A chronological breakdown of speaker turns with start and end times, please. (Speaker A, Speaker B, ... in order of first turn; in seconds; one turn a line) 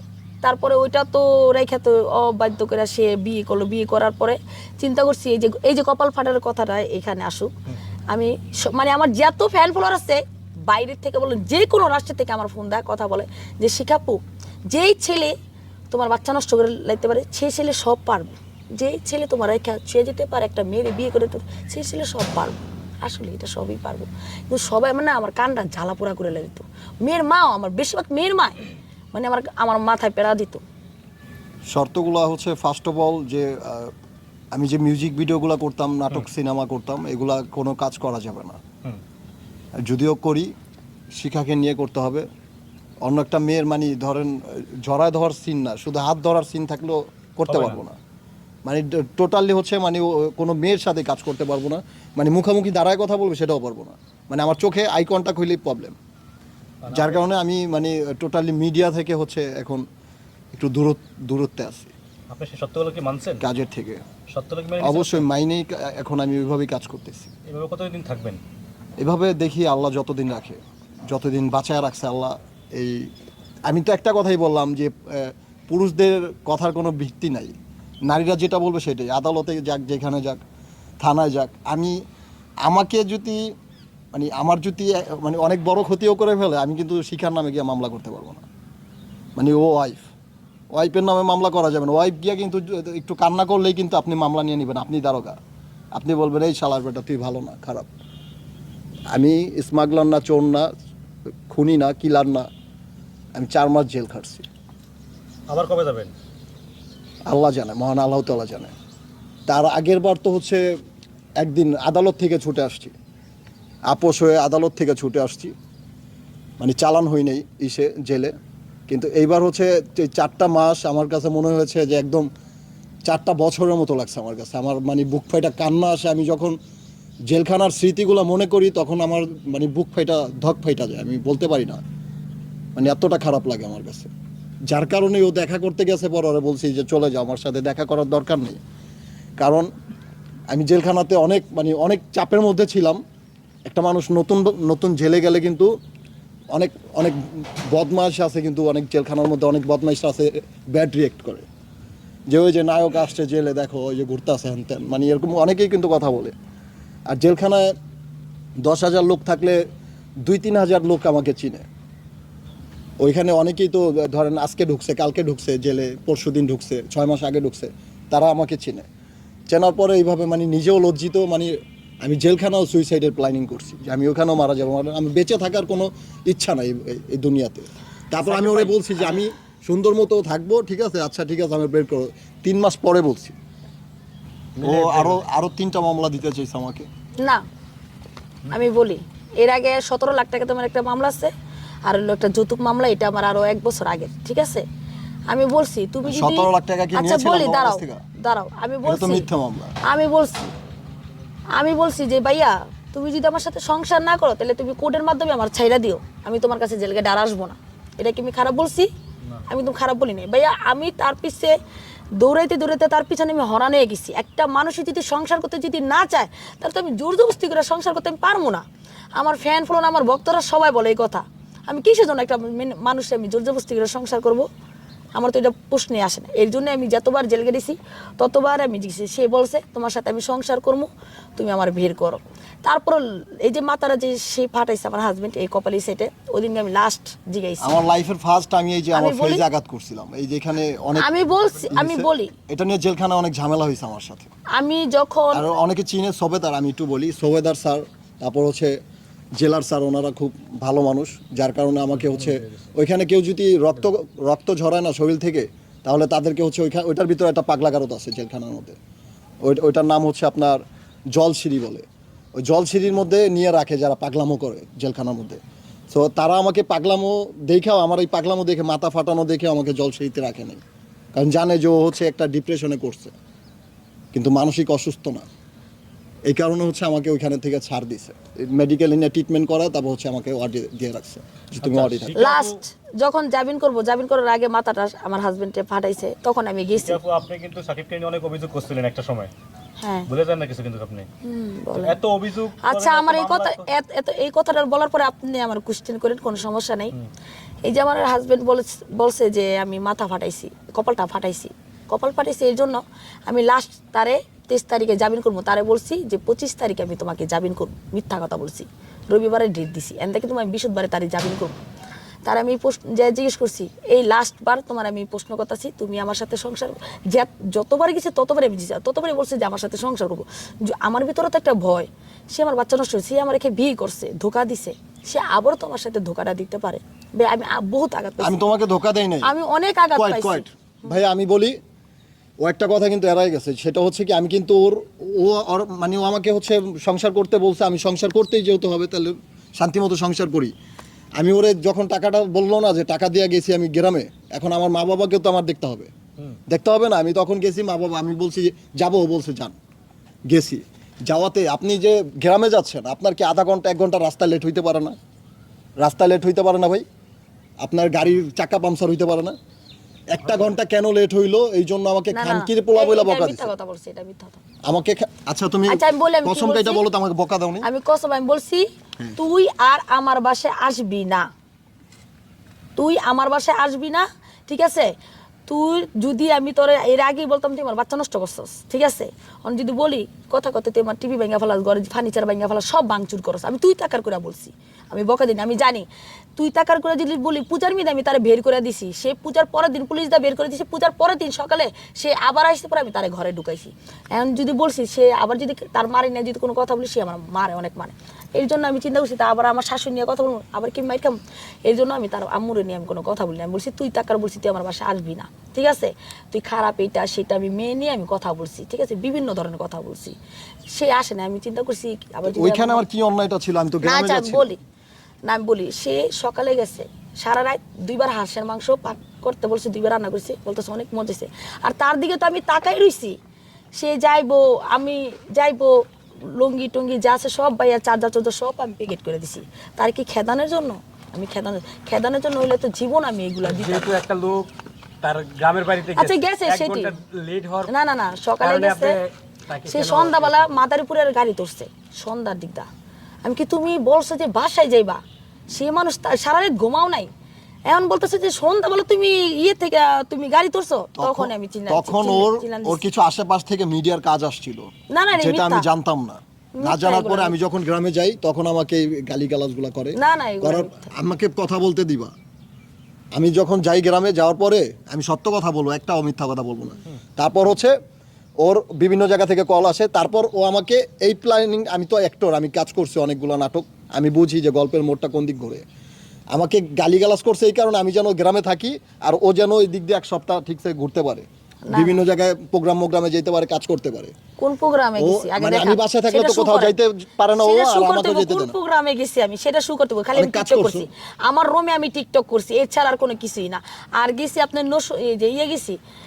Speaker A: 0.4-7.5
Speaker A: 8.1-15.3
Speaker A: 15.9-30.6
Speaker B: 31.7-33.9
Speaker B: 34.5-38.6
Speaker B: 39.8-40.5
Speaker B: 41.1-42.3
Speaker B: 43.0-48.0
Speaker C: 47.5-47.8
Speaker B: 48.6-56.0
Speaker C: 56.8-57.3
Speaker B: 56.9-59.8
Speaker B: 60.5-61.9
Speaker C: 62.3-63.5
Speaker B: 63.4-64.0
Speaker C: 64.3-65.3
Speaker B: 64.8-67.3
Speaker C: 67.5-68.4
Speaker B: 69.0-73.1
Speaker B: 73.7-77.5
Speaker B: 78.1-80.4
Speaker B: 81.0-82.0
Speaker B: 82.7-83.5
Speaker B: 84.1-88.5
Speaker B: 89.4-90.1
Speaker B: 90.7-95.4
Speaker B: 96.0-97.9
Speaker B: 99.1-100.7
Speaker B: 101.5-102.5
Speaker B: 103.3-104.5
Speaker C: 105.5-106.1
Speaker B: 107.3-108.7
Speaker B: 109.5-110.7
Speaker B: 111.4-112.9
Speaker B: 113.9-115.5
Speaker B: 116.6-118.3
Speaker B: 118.9-122.3
Speaker B: 123.1-126.6
Speaker B: 127.3-131.8
Speaker B: 132.8-134.1
Speaker B: 134.7-138.6
Speaker B: 139.4-139.7
Speaker B: 140.5-143.0
Speaker B: 143.7-145.7
Speaker B: 146.5-151.5
Speaker B: 152.3-156.3
Speaker B: 157.1-157.7
Speaker B: 158.6-159.6
Speaker B: 160.2-161.7
Speaker B: 163.0-168.9
Speaker B: 169.5-183.4
Speaker C: 178.2-179.2
Speaker C: 184.6-185.2
Speaker B: 184.6-186.9
Speaker A: 188.5-191.3
Speaker A: 191.8-194.7
Speaker A: 195.3-199.3
Speaker B: 196.1-198.0
Speaker B: 198.8-199.8
Speaker A: 199.8-200.5
Speaker A: 201.6-208.9
Speaker A: 209.5-211.6
Speaker A: 212.2-218.7
Speaker A: 219.2-224.5
Speaker A: 225.2-237.8
Speaker B: 237.6-244.3
Speaker A: 238.9-239.4
Speaker A: 241.0-242.3
Speaker A: 244.5-245.4
Speaker B: 245.3-248.8
Speaker B: 249.4-258.8
Speaker C: 252.0-252.5
Speaker B: 259.4-260.6
Speaker B: 261.1-265.4
Speaker B: 265.9-270.6
Speaker B: 271.1-273.1
Speaker B: 274.1-275.3
Speaker B: 276.3-282.2
Speaker C: 281.6-282.6
Speaker A: 282.2-287.0
Speaker C: 286.7-289.3
Speaker A: 289.8-290.1
Speaker C: 290.1-291.1
Speaker A: 291.2-292.0
Speaker C: 291.8-293.7
Speaker A: 292.6-296.9
Speaker A: 297.6-311.6
Speaker A: 312.2-328.4
Speaker B: 328.2-329.3
Speaker A: 329.2-330.5
Speaker B: 329.9-331.6
Speaker B: 332.4-340.5
Speaker B: 341.2-345.9
Speaker B: 346.5-349.6
Speaker B: 350.3-355.0
Speaker B: 355.8-356.9
Speaker B: 357.6-359.4
Speaker B: 360.1-363.5
Speaker A: 362.1-364.4
Speaker B: 364.6-367.7
Speaker A: 365.7-366.8
Speaker A: 367.6-371.3
Speaker A: 372.8-374.9
Speaker A: 375.5-410.2
Speaker A: 410.7-412.9
Speaker B: 412.3-414.6
Speaker A: 413.8-414.6
Speaker A: 415.3-423.2
Speaker A: 423.8-433.9
Speaker D: 433.5-434.5
Speaker D: 435.0-437.7
Speaker A: 435.9-437.0
Speaker A: 437.6-439.0
Speaker D: 438.4-440.4
Speaker A: 439.6-442.7
Speaker A: 443.2-447.1
Speaker A: 447.7-452.8
Speaker B: 451.0-462.1
Speaker A: 454.9-455.7
Speaker A: 456.6-457.3
Speaker A: 459.9-460.9
Speaker B: 463.1-467.8
Speaker B: 468.4-475.6
Speaker B: 476.3-484.1
Speaker A: 481.7-482.0
Speaker A: 484.4-486.8
Speaker B: 485.0-488.6
Speaker A: 487.3-495.8
Speaker B: 490.1-490.9